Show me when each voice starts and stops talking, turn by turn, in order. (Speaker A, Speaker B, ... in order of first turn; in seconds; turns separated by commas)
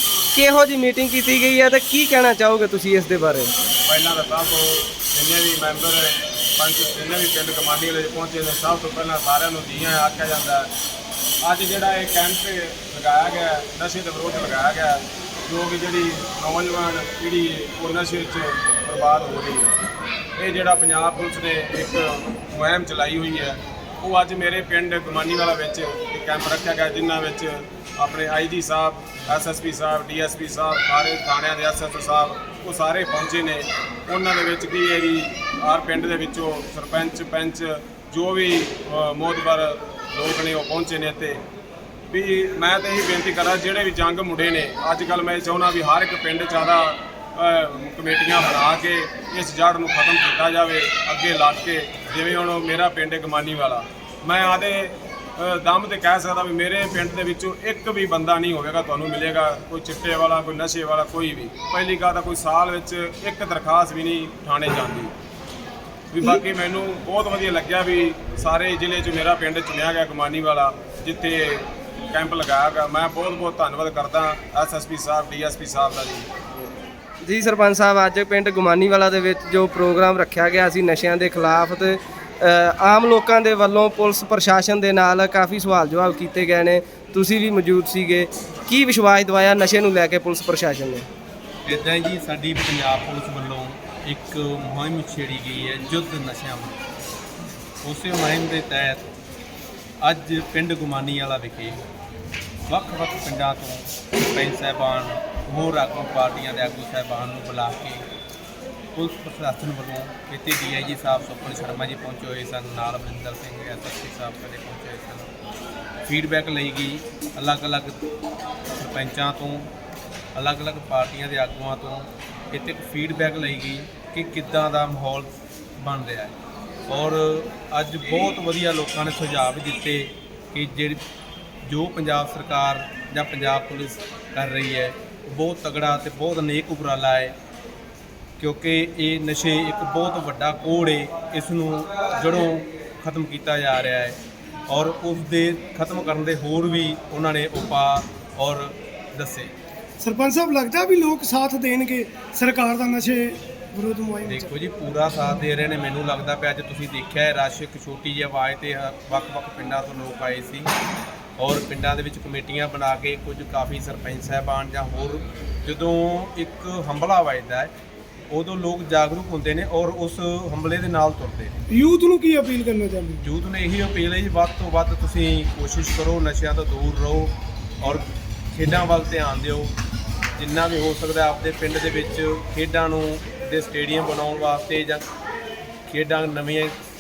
Speaker A: 0.3-3.5, Speaker B: 3.9-10.7, Speaker B: 11.4-19.7, Speaker B: 20.4-41.4, Speaker B: 42.1-65.1, Speaker B: 66.1-76.3, Speaker A: 77.2-91.1, Speaker C: 91.7-96.8, Speaker C: 97.8-99.0, Speaker C: 100.0-101.8, Speaker C: 102.7-108.0, Speaker C: 108.9-115.3, Speaker C: 116.0-118.1, Speaker C: 118.8-119.7, Speaker C: 120.3-126.3, Speaker C: 126.9-131.0, Speaker C: 131.7-137.3, Speaker C: 138.4-144.2, Speaker C: 144.7-149.5, Speaker D: 150.0-154.5, Speaker C: 154.2-160.7, Speaker C: 161.4-167.7, Speaker C: 168.3-171.6, Speaker D: 171.7-173.3, Speaker C: 173.2-179.7, Speaker C: 180.3-185.0, Speaker C: 185.9-186.8